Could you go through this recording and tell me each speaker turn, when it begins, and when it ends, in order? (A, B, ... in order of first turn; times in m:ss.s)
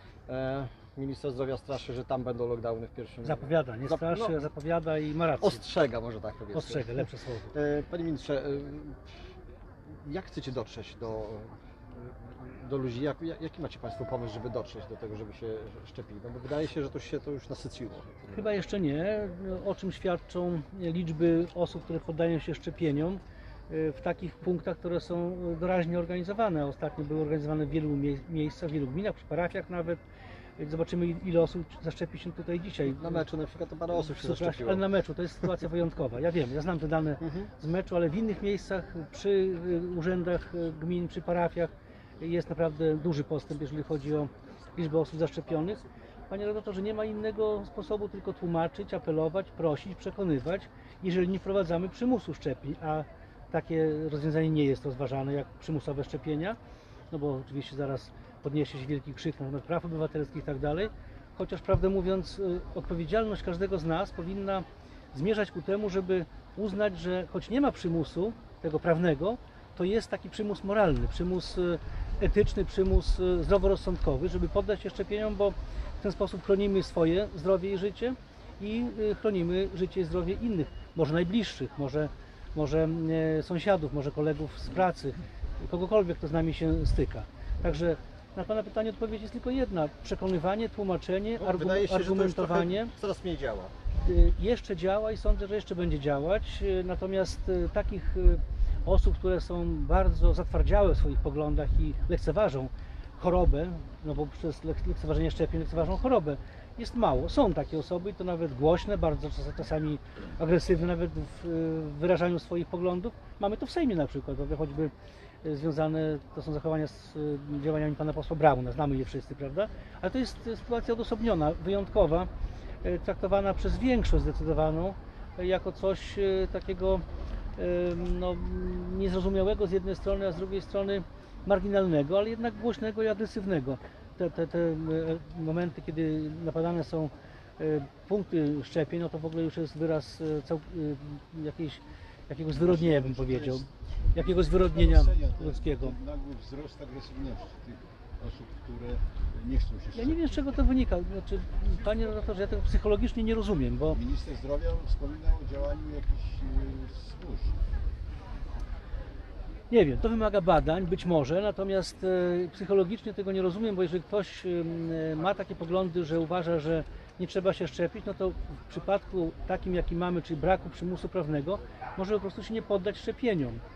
0:00.3-0:04.4 A
0:03.2-0:05.6 B
0:05.4-0:09.1 A
0:06.5-0:07.5 B
0:10.0-0:18.5 A
0:18.3-0:30.0 B
0:30.6-0:33.3 B
0:32.9-0:34.9 A
0:33.9-0:56.6 B
0:37.2-0:37.5 A
0:57.1-1:32.9 B
1:31.4-1:33.7 A
1:34.0-1:54.9 B
1:55.4-2:02.3 B
2:02.8-2:07.0 B
2:07.6-2:25.9 B
2:22.5-2:30.4 C
2:29.9-2:34.0 B
2:33.9-2:37.6 C
2:39.7-2:53.6 B